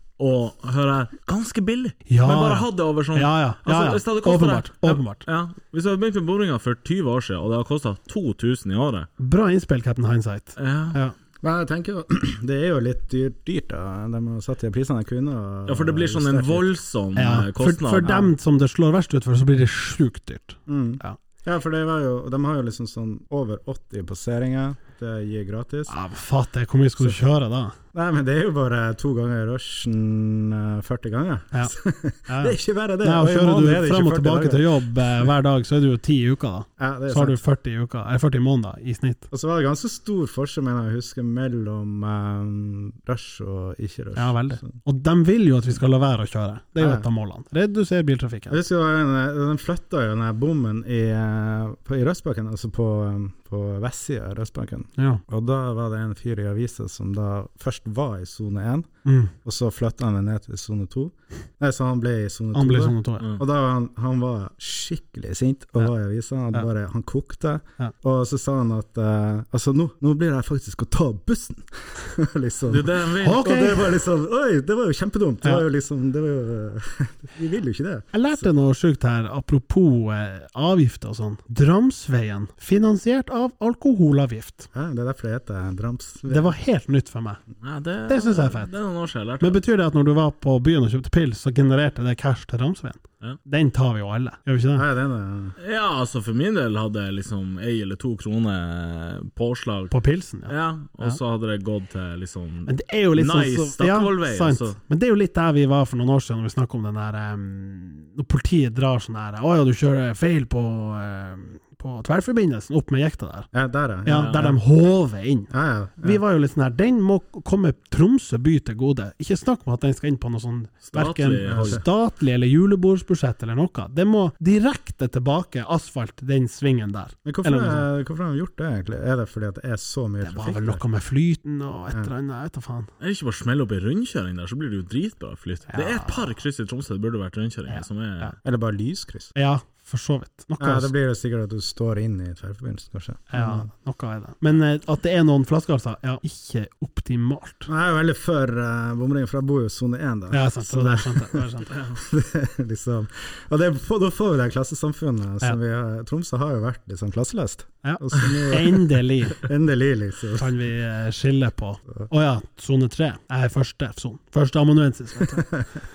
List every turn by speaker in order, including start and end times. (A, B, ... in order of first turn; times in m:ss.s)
0:00.2-0:09.1 A
0:02.1-0:05.2 B
0:09.2-0:11.2 B
0:10.6-0:11.0 A
0:11.4-0:16.7 C
0:15.7-0:18.3 A
0:17.2-0:21.2 B
0:20.7-0:25.9 C
0:25.9-0:27.8 B
0:27.9-0:35.3 C
0:32.3-0:39.3 B
0:36.8-0:37.4 C
0:39.3-0:44.7 C
0:44.2-0:48.6 B
0:46.8-0:47.1 C
0:48.5-1:18.5 C
0:55.0-0:55.2 B
0:59.1-0:59.3 B
1:02.5-1:03.2 B
1:12.7-1:13.4 A
1:13.2-1:13.9 B
1:18.1-1:24.7 B
1:24.7-1:26.5 C
1:26.3-1:27.4 B
1:27.6-1:29.6 A
1:28.1-1:28.7 B
1:29.4-1:34.9 B
1:34.8-1:35.6 C
1:35.6-1:40.0 A
1:39.9-1:41.2 B
1:40.5-1:44.8 A
1:42.7-1:53.5 B
1:53.5-1:54.6 C
1:54.0-2:07.9 B
1:54.1-1:54.5 A
1:55.5-1:56.2 C
2:00.8-2:01.8 A
2:01.5-2:01.8 C
2:07.2-2:10.8 C
2:10.2-2:12.9 B
2:13.0-2:18.4 A
2:15.7-2:16.3 B
2:17.7-2:18.4 B
2:18.4-2:19.3 C
2:19.4-2:20.9 B
2:20.6-2:23.7 C
2:23.3-2:27.7 B
2:27.7-2:40.5 C
2:30.3-2:31.8 B
2:31.7-2:32.0 A
2:37.8-2:39.4 B
2:40.4-2:45.5 B
2:45.4-2:45.6 C